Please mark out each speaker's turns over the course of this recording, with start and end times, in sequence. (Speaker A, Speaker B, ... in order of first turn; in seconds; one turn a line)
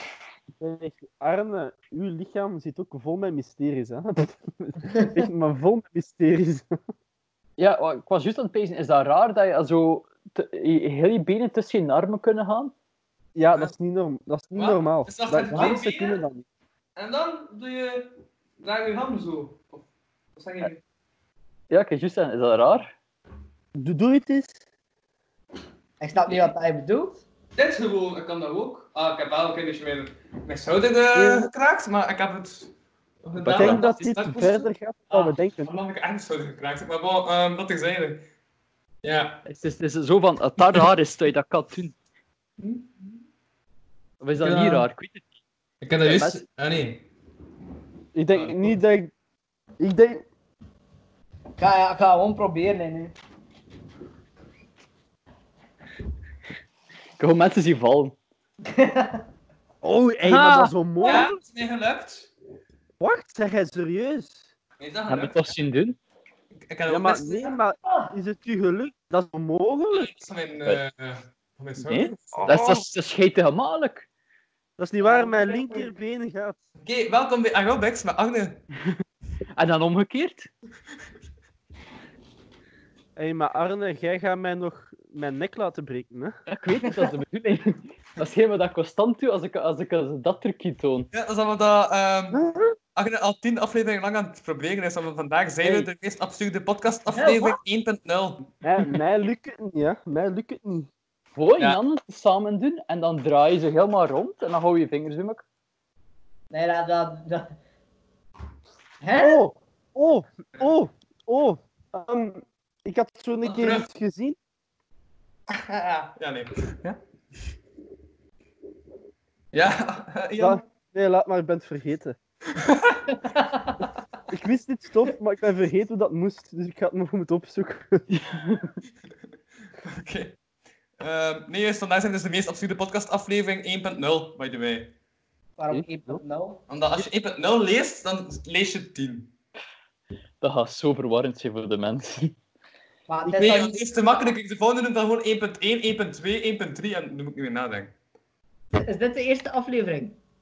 Speaker A: 0.6-6.7
Speaker B: 7.6-12.7
Speaker A: 13.3-16.4
Speaker C: 14.5-16.2
Speaker D: 15.5-15.8
Speaker C: 16.9-19.8
Speaker C: 20.4-20.8
Speaker B: 21.7-22.9
Speaker A: 23.8-24.6
Speaker D: 26.0-27.2
Speaker C: 27.6-32.7
Speaker A: 31.1-31.5
Speaker C: 33.2-38.2
Speaker B: 33.4-34.1
Speaker A: 33.5-35.7
Speaker C: 39.0-39.4
Speaker B: 39.4-42.0
Speaker C: 42.6-43.1
Speaker B: 44.2-45.3
Speaker C: 44.4-44.9
Speaker C: 45.8-47.0
Speaker B: 46.0-46.4
Speaker A: 48.1-49.1
Speaker C: 48.3-48.7
Speaker A: 49.8-50.2
Speaker D: 51.6-53.1
Speaker B: 57.2-58.2
Speaker D: 58.7-59.2
Speaker A: 59.8-61.3
Speaker B: 60.2-60.7
Speaker C: 61.0-62.3
Speaker A: 63.0-64.5
Speaker C: 64.8-65.5
Speaker B: 65.1-66.0
Speaker C: 66.7-67.5
Speaker A: 66.9-70.1
Speaker C: 69.9-72.4
Speaker B: 71.8-74.0
Speaker A: 72.3-72.8
Speaker A: 74.8-76.5
Speaker D: 75.0-75.9
Speaker C: 76.8-78.6
Speaker B: 79.6-80.5
Speaker A: 83.2-86.3
Speaker B: 86.5-91.1
Speaker C: 91.1-92.4
Speaker A: 92.3-92.7
Speaker C: 93.0-98.5
Speaker D: 97.1-97.6
Speaker A: 98.6-100.9
Speaker B: 101.3-105.4
Speaker D: 106.5-107.5
Speaker D: 109.0-109.4
Speaker A: 109.2-114.4
Speaker C: 113.4-113.9
Speaker C: 115.5-117.0
Speaker C: 119.5-120.6
Speaker A: 120.4-122.2
Speaker C: 122.5-123.0
Speaker D: 123.2-123.8
Speaker A: 124.3-128.1
Speaker B: 128.1-128.8
Speaker C: 129.8-130.3
Speaker C: 131.0-134.9
Speaker D: 135.6-136.6
Speaker A: 135.7-136.2
Speaker C: 136.7-139.3
Speaker B: 140.4-142.3
Speaker D: 143.1-144.3
Speaker C: 143.3-147.9
Speaker D: 148.7-150.2